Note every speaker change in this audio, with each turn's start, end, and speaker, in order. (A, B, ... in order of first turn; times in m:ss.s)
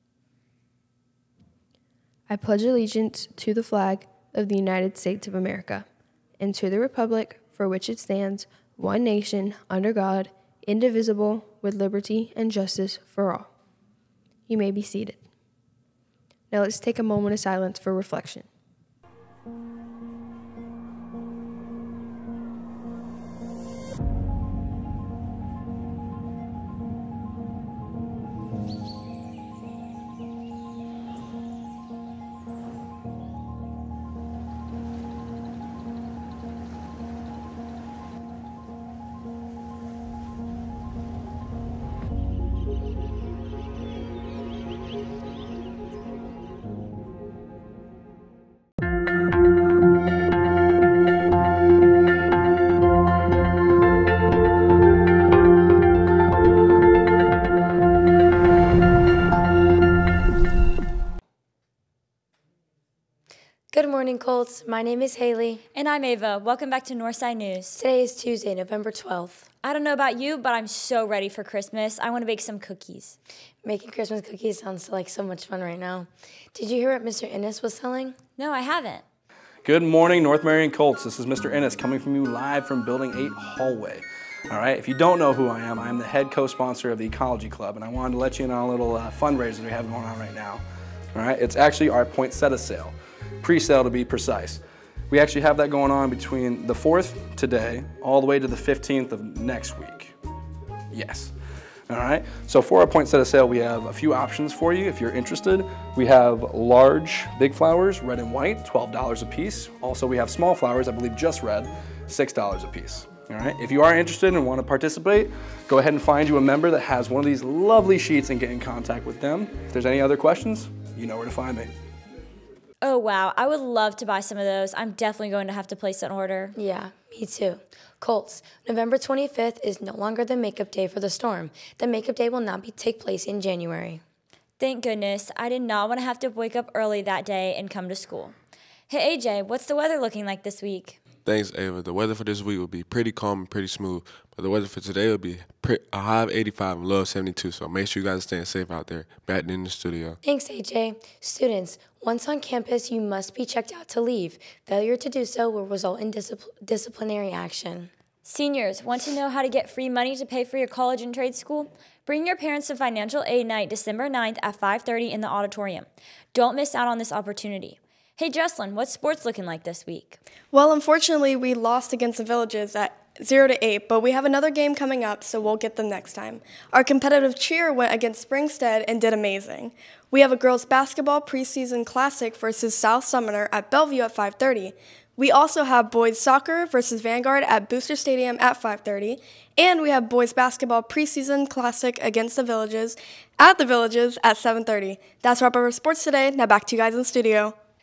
0:02.3-0:05.8 A
0:06.4-0:13.5 A
0:14.5-0:15.3 A
0:16.5-0:18.5 A
1:03.7-1:05.6 B
1:05.7-1:07.8 C
1:07.7-1:09.4 B
1:09.6-1:13.2 C
1:13.6-1:18.1 B
1:18.4-1:19.0 C
1:19.6-1:30.6 D
1:31.1-1:40.1 D
1:40.9-1:41.3 D
1:41.9-2:01.7 D
2:02.8-2:06.6 C
2:06.6-2:14.0 B
2:14.6-2:18.3 C
2:18.9-2:21.0 C
2:21.2-2:30.2 E
2:30.2-2:37.9 B
2:38.2-2:50.2 C
2:50.5-3:17.5 F